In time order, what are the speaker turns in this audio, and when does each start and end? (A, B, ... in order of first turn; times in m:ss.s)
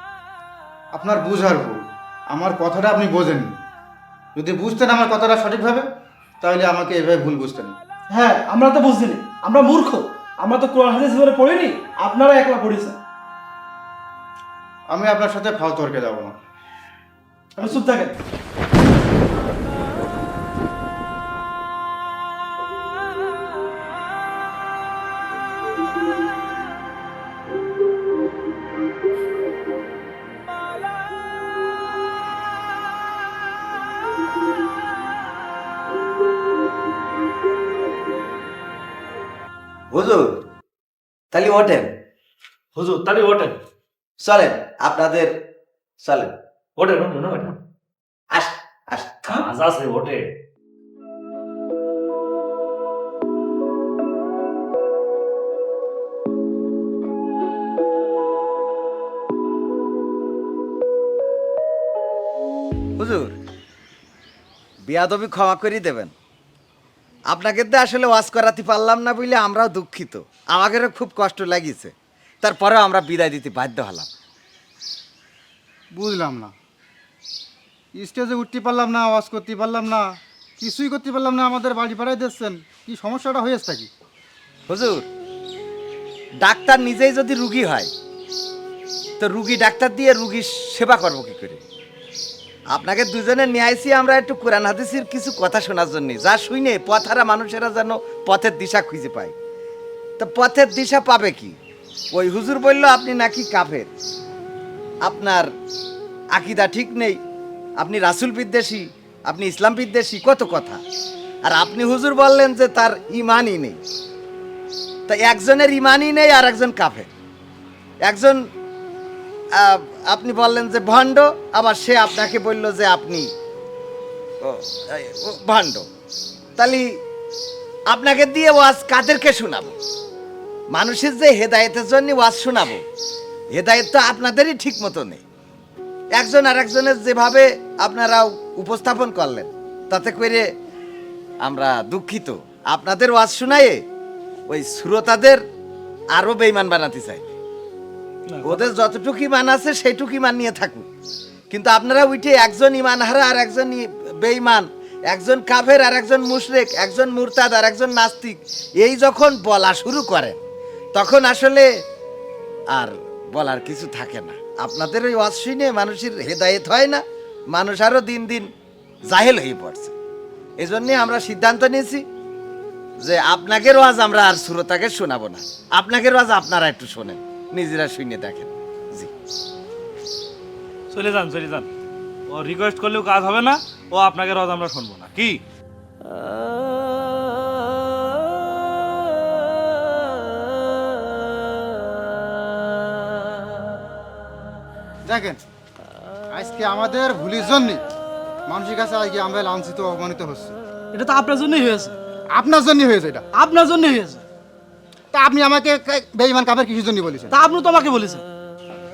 0:00.9-0:03.5 A
0:04.3-0:05.8 A
0:06.4-0:07.8 A
0:08.1-0:13.0 B
0:14.9-0:16.4 A
0:17.6-0:18.1 B
0:39.9-0:40.4 C
0:41.3-0:41.9 C
0:42.8-0:43.6 D
0:44.2-0:45.3 C
0:46.0-0:46.3 C
0:46.8-0:47.6 D
0:48.3-0:49.4 C
0:49.3-0:50.2 D
1:03.0-1:03.3 C
1:04.9-1:06.1 C
1:07.3-1:14.1 C
1:15.9-1:16.5 A
1:18.0-1:23.9 A
1:24.7-1:25.0 C
1:26.4-1:27.9 C
1:29.2-1:31.6 C
1:32.7-1:39.3 C
1:40.2-1:41.5 C
1:42.1-1:43.9 C
1:45.0-1:45.5 C
1:46.3-1:47.2 C
1:47.8-1:50.8 C
1:51.4-1:53.8 C
1:55.1-1:57.1 C
1:58.0-1:58.4 C
1:59.5-2:03.3 C
2:04.4-2:05.9 C
2:06.6-2:06.9 C
2:07.9-2:09.8 C
2:10.7-2:12.8 C
2:13.5-2:15.2 C
2:16.1-2:20.4 C
2:21.4-2:23.8 C
2:24.5-2:25.4 C
2:26.1-2:27.2 C
2:28.3-2:28.7 D
2:28.4-2:30.9 C
2:31.5-2:40.4 C
2:40.9-2:41.7 C
2:42.7-2:48.5 C
2:49.1-2:49.9 C
2:50.6-2:52.0 C
2:53.0-2:59.1 C
3:00.9-3:01.7 D
3:02.3-3:05.4 D
3:15.1-3:15.4 A
3:16.3-3:17.8 A
3:18.5-3:20.6 A
3:20.9-3:22.0 B
3:22.3-3:23.2 A
3:23.3-3:24.2 B
3:25.1-3:27.3 A
3:27.3-3:28.2 B